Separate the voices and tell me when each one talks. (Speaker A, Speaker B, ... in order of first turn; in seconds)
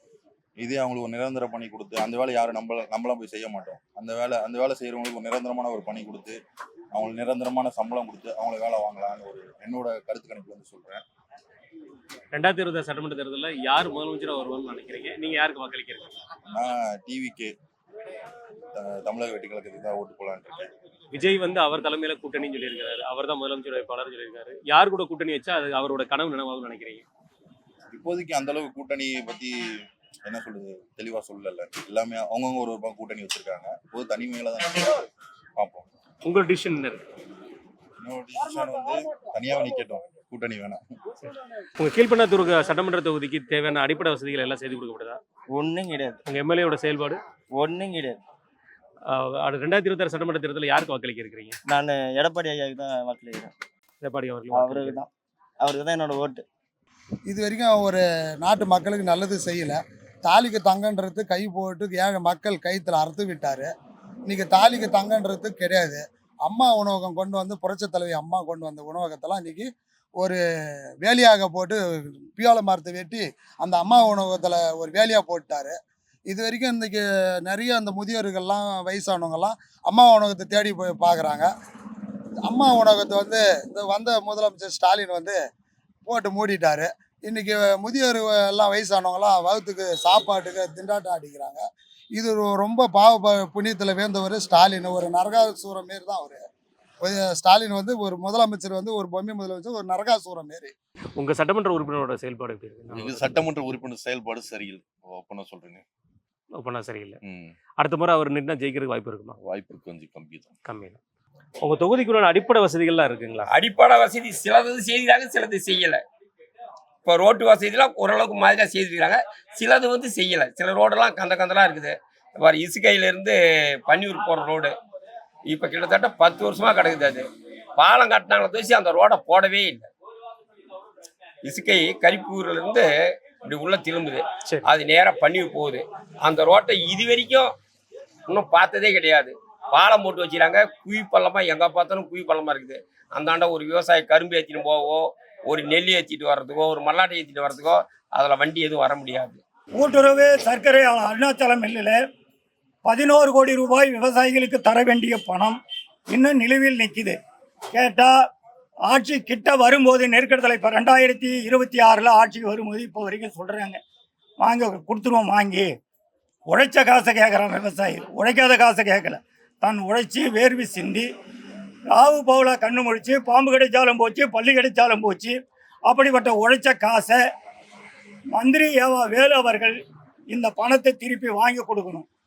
Speaker A: 0.6-6.4, 6.9-11.0, 16.5-17.5, 18.8-20.7, 27.9-29.6, 30.3-34.9, 35.6-35.9, 38.0-40.8, 102.9-105.8, 107.2-107.5, 109.4-110.5
Speaker B: 12.3-16.1, 21.1-27.1, 36.2-37.0, 41.2-45.2, 46.3-47.2, 49.1-51.6, 54.0-55.0, 101.2-103.4, 106.6-107.2, 107.8-109.4, 110.7-111.0, 111.6-113.5
Speaker C: 45.5-46.2, 47.5-48.2, 51.7-53.5, 54.5-55.1, 55.6-56.5
Speaker D: 57.3-63.7, 64.3-70.4, 71.0-75.8, 76.3-81.5, 82.5-85.4, 86.1-91.6, 92.2-96.4, 97.0-100.7
Speaker E: 113.5-116.0, 117.1-124.7, 125.5-127.2, 127.8-129.9, 131.4-132.9, 133.5-137.5, 138.3-149.4
Speaker F: 149.8-152.0, 152.8-155.6, 156.1-157.2, 157.8-158.1, 158.9-163.8, 164.4-165.7, 166.5-171.1, 171.9-175.3, 175.9-177.2, 178.3-179.7, 180.3-182.1